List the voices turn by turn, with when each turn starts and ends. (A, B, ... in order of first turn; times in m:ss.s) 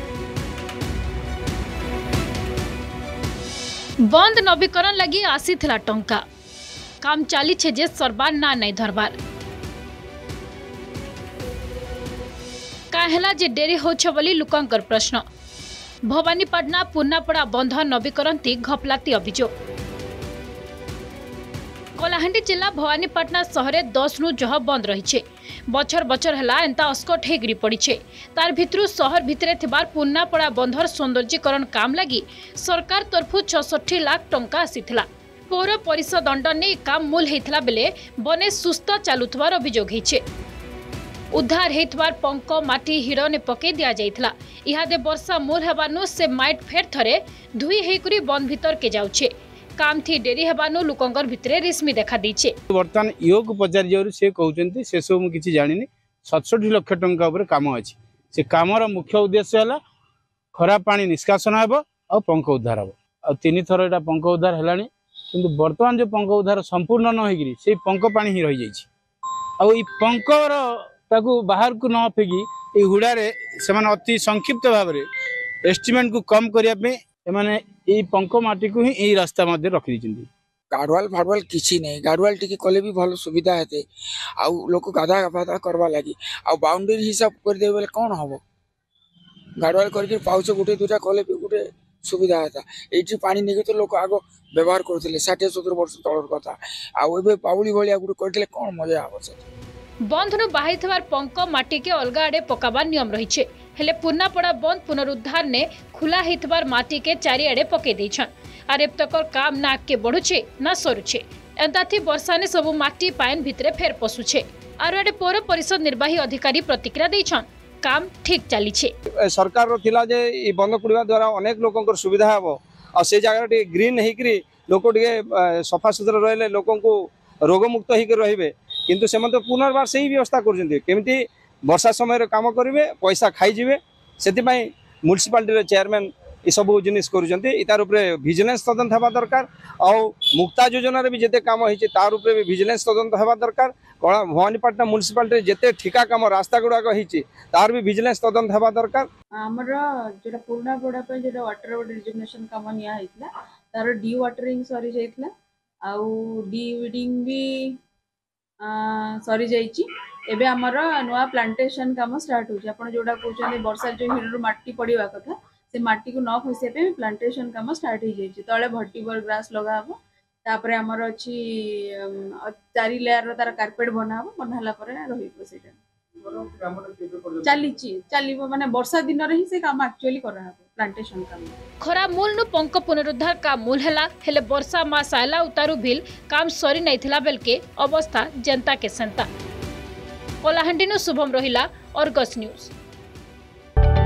0:04.0-0:06.2 A
0:07.0-0:09.1 A
0:12.9-0:15.2 A
0:16.0-0:19.5 A
0:22.0-0:40.2 A
0:41.3-0:52.6 A
0:52.7-0:59.8 B
1:00.6-1:08.9 B
1:09.6-1:15.0 B
1:15.6-1:20.3 B
1:20.7-1:23.8 C
1:24.4-1:28.4 C
1:29.6-1:39.4 C
1:40.0-1:58.9 A
1:59.3-2:29.1 D
2:29.4-2:35.3 E
2:35.8-2:37.7 E
2:38.6-2:55.8 E
2:56.2-2:57.6 D
2:57.4-3:01.6 E
3:01.8-3:09.3 A
3:10.4-3:12.7 A